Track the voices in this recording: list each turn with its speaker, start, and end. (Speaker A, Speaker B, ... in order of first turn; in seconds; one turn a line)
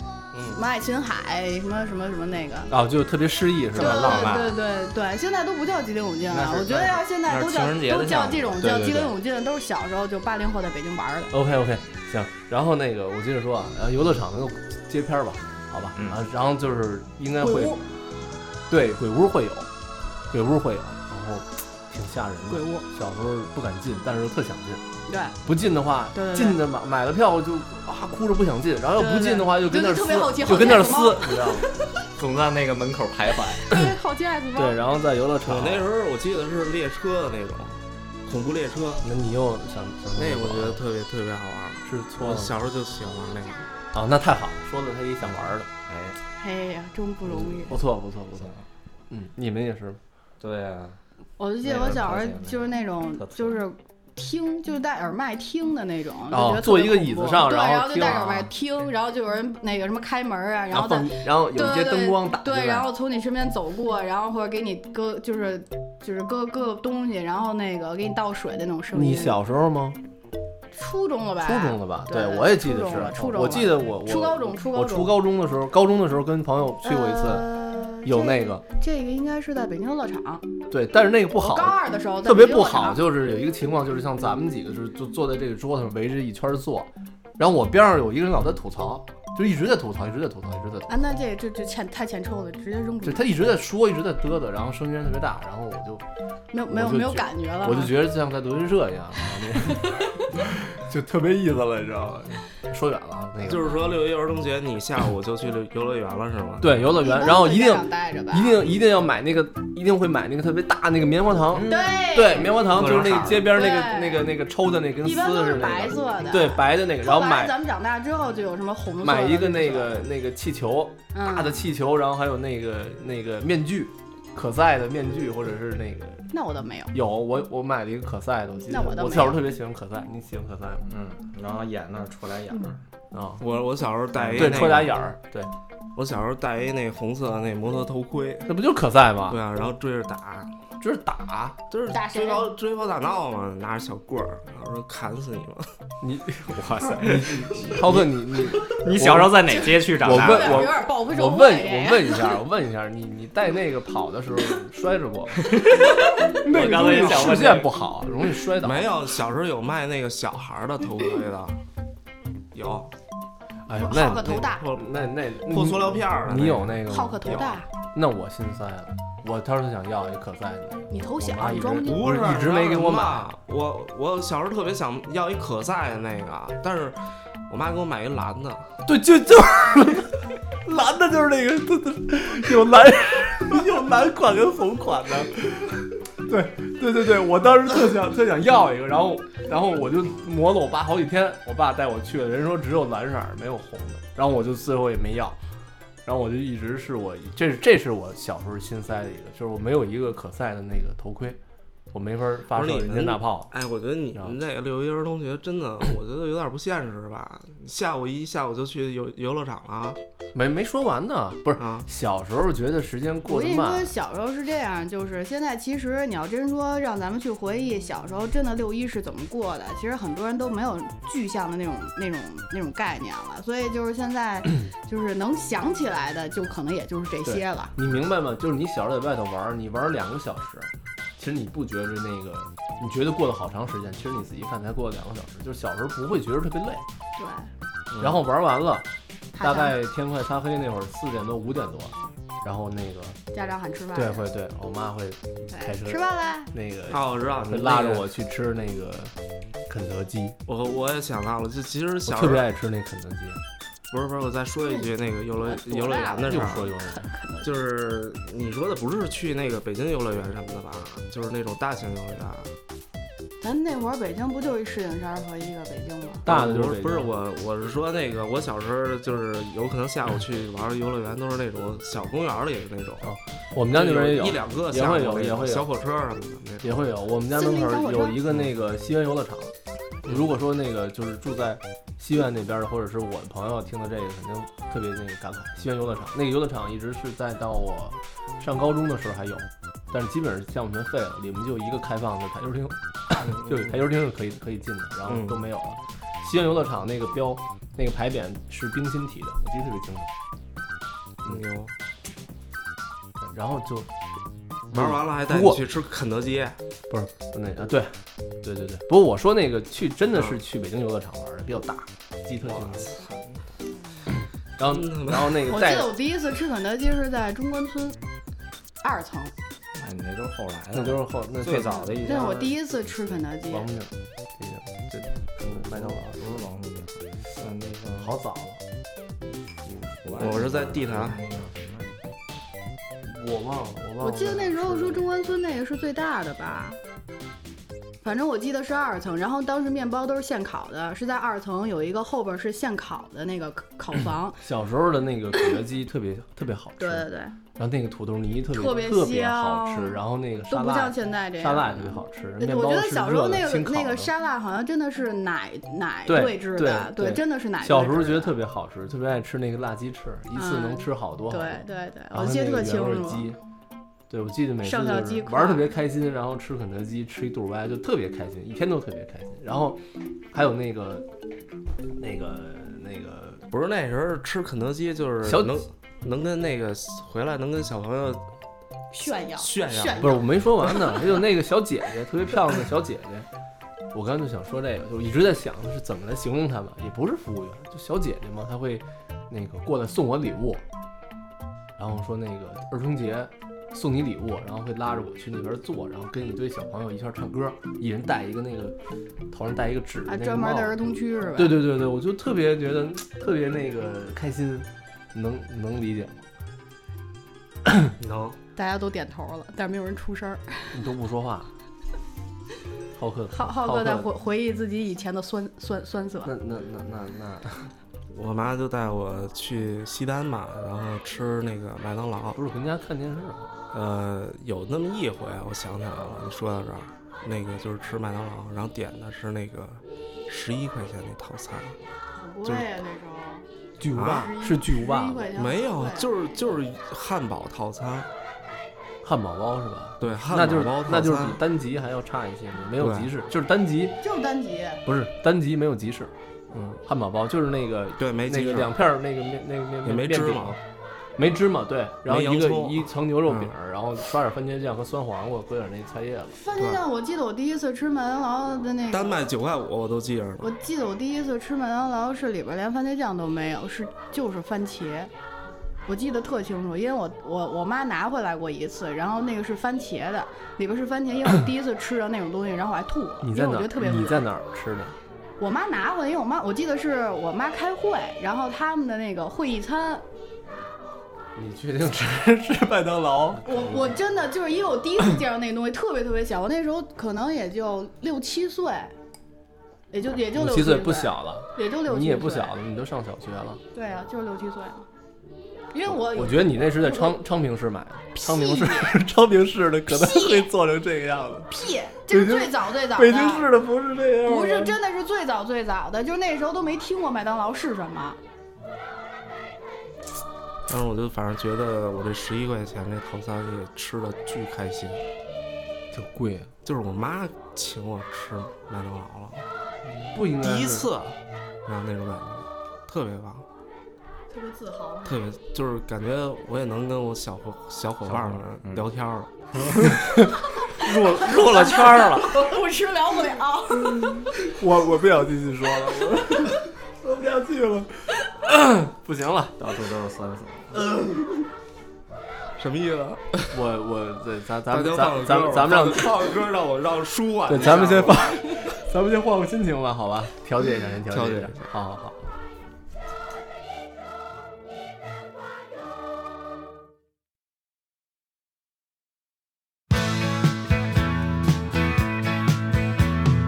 Speaker A: 0.5-2.7
Speaker B: 2.7-4.4
Speaker C: 3.7-4.6
Speaker A: 3.8-11.3
Speaker C: 6.3-8.7
Speaker B: 8.6-9.2
Speaker B: 11.3-17.8
Speaker C: 15.9-16.2
Speaker A: 17.4-17.8
Speaker B: 18.7-19.7
Speaker B: 20.3-24.8
Speaker A: 22.5-22.8
Speaker A: 25.1-25.4
Speaker B: 25.4-31.7
Speaker A: 26.1-26.6
Speaker A: 28.9-31.7
Speaker C: 32.1-33.6
Speaker A: 33.6-34.8
Speaker B: 34.5-35.9
Speaker D: 35.4-39.0
Speaker B: 39.0-40.8
Speaker D: 40.1-43.7
Speaker B: 41.8-42.5
Speaker B: 43.9-45.7
Speaker C: 45.2-46.2
Speaker A: 46.4-47.8
Speaker C: 47.3-47.7
Speaker B: 47.7-48.5
Speaker C: 48.3-48.6
Speaker B: 49.1-50.0
Speaker C: 50.4-51.0
Speaker A: 51.4-69.4
Speaker C: 51.6-53.6
Speaker B: 56.3-58.5
Speaker B: 60.7-62.9
Speaker B: 68.9-70.0
Speaker A: 70.7-75.2
Speaker B: 71.4-78.6
Speaker A: 76.8-80.5
Speaker B: 80.7-91.0
Speaker A: 81.3-83.2
Speaker A: 90.9-93.4
Speaker B: 93.0-96.0
Speaker A: 96.5-98.0
Speaker B: 96.7-103.8
Speaker D: 103.4-106.8
Speaker B: 106.6-117.5
Speaker A: 107.0-108.6
Speaker A: 111.6-114.3
Speaker D: 112.7-113.5
Speaker A: 115.0-120.0
Speaker B: 119.0-126.3
Speaker A: 121.1-121.6
Speaker A: 126.3-126.9
Speaker B: 126.9-130.9
Speaker A: 128.7-129.4
Speaker C: 130.9-132.8
Speaker B: 133.1-133.4
Speaker D: 133.4-135.0
Speaker C: 134.2-135.5
Speaker B: 134.3-135.3
Speaker D: 135.9-138.5
Speaker B: 138.4-139.4
Speaker D: 139.3-140.5
Speaker B: 140.8-141.6
Speaker D: 141.7-145.7
Speaker A: 141.9-142.5
Speaker B: 146.0-155.6
Speaker C: 146.5-150.8
Speaker A: 149.5-152.3
Speaker C: 155.5-157.7
Speaker B: 156.3-159.0
Speaker D: 156.7-157.7
Speaker D: 158.6-161.6
Speaker D: 162.5-162.9
Speaker B: 163.7-173.3
Speaker A: 163.7-164.6
Speaker D: 164.2-164.9
Speaker D: 165.4-167.5
Speaker A: 166.9-167.7
Speaker A: 170.9-172.1
Speaker D: 171.8-178.7
Speaker B: 178.8-195.4
Speaker B: 196.0-201.4
Speaker B: 201.9-203.5
Speaker D: 202.5-210.0
Speaker B: 210.3-213.9
Speaker D: 211.6-211.9
Speaker A: 213.3-227.7
Speaker B: 227.2-236.8
Speaker A: 237.2-237.5
Speaker D: 237.9-238.2
Speaker B: 238.0-238.9
Speaker A: 239.3-239.8
Speaker B: 239.4-243.2
Speaker A: 243.3-244.3
Speaker B: 243.9-249.1
Speaker A: 245.5-246.5
Speaker D: 246.9-248.1
Speaker B: 249.7-250.4
Speaker D: 250.4-252.5
Speaker B: 252.1-253.4
Speaker D: 253.9-256.7
Speaker A: 255.4-257.5
Speaker B: 256.2-257.1
Speaker D: 257.4-262.5
Speaker A: 263.4-266.2
Speaker B: 266.2-267.1
Speaker D: 266.2-273.2
Speaker B: 273.0-275.7
Speaker D: 273.7-276.8
Speaker B: 276.6-279.5
Speaker A: 277.3-278.2
Speaker D: 280.0-280.3
Speaker B: 280.0-300.1
Speaker D: 293.2-293.8
Speaker D: 295.1-295.4
Speaker D: 301.2-301.7
Speaker B: 303.2-303.9
Speaker B: 304.7-305.6
Speaker D: 304.7-306.6
Speaker B: 306.9-312.9
Speaker D: 310.1-310.4
Speaker D: 312.4-313.4
Speaker B: 314.6-315.9
Speaker D: 314.6-315.4
Speaker A: 315.4-318.0
Speaker A: 318.8-319.3
Speaker C: 319.7-322.6
Speaker B: 320.7-322.1
Speaker A: 322.0-323.7
Speaker B: 323.5-326.2
Speaker C: 324.9-328.1
Speaker B: 327.9-328.6
Speaker B: 329.6-329.9
Speaker C: 330.0-331.9
Speaker D: 330.1-331.2
Speaker B: 333.0-335.0
Speaker A: 334.0-336.8
Speaker A: 338.0-344.4
Speaker B: 344.4-354.1
Speaker A: 346.8-347.4
Speaker A: 348.5-358.4
Speaker B: 356.1-363.4
Speaker A: 360.3-363.3
Speaker B: 364.1-371.1
Speaker A: 364.6-365.7
Speaker B: 372.0-373.4
Speaker D: 373.5-378.2
Speaker B: 375.2-375.6
Speaker A: 378.9-380.2
Speaker D: 379.4-380.2
Speaker B: 380.0-383.3
Speaker B: 383.9-390.6
Speaker B: 391.8-398.8
Speaker B: 399.3-400.8
Speaker A: 400.1-401.6
Speaker B: 401.4-406.2
Speaker B: 407.6-407.9
Speaker D: 408.0-408.4
Speaker A: 408.6-410.8
Speaker B: 410.7-411.5
Speaker B: 412.9-414.1
Speaker A: 413.3-416.3
Speaker B: 416.2-417.7
Speaker D: 418.1-422.4
Speaker B: 422.3-423.5
Speaker D: 423.7-431.8
Speaker A: 432.1-433.4
Speaker B: 433.8-435.2
Speaker D: 433.9-434.3
Speaker A: 434.0-436.1
Speaker D: 435.4-438.1
Speaker B: 439.0-444.0
Speaker D: 440.0-441.4
Speaker D: 442.8-443.1
Speaker A: 444.0-444.8
Speaker B: 444.8-446.1
Speaker B: 446.7-450.6
Speaker D: 448.0-448.8
Speaker D: 449.8-450.6
Speaker B: 451.2-456.4
Speaker D: 452.1-453.5
Speaker A: 456.3-459.2
Speaker D: 456.6-456.8
Speaker D: 458.9-460.5
Speaker A: 460.4-465.1
Speaker A: 465.9-474.2
Speaker B: 473.2-474.9
Speaker A: 475.4-480.0
Speaker B: 481.3-483.9
Speaker A: 483.4-488.9
Speaker A: 489.9-492.6
Speaker B: 490.3-493.6
Speaker A: 493.7-494.9
Speaker A: 495.7-497.2
Speaker B: 495.9-501.5
Speaker A: 498.1-499.0
Speaker A: 499.9-500.5
Speaker A: 501.5-503.5
Speaker B: 502.1-504.8
Speaker A: 504.2-508.2
Speaker D: 510.7-515.0
Speaker B: 515.9-516.5
Speaker D: 516.6-519.4
Speaker B: 519.9-520.9
Speaker D: 520.4-523.5
Speaker A: 524.3-525.2
Speaker D: 525.0-529.3
Speaker B: 529.7-530.3
Speaker C: 530.8-532.5
Speaker A: 531.2-534.2
Speaker B: 534.0-539.5
Speaker C: 539.6-540.8
Speaker D: 542.6-543.6
Speaker B: 543.5-546.3
Speaker D: 544.7-548.7
Speaker B: 547.5-552.3
Speaker D: 551.1-551.7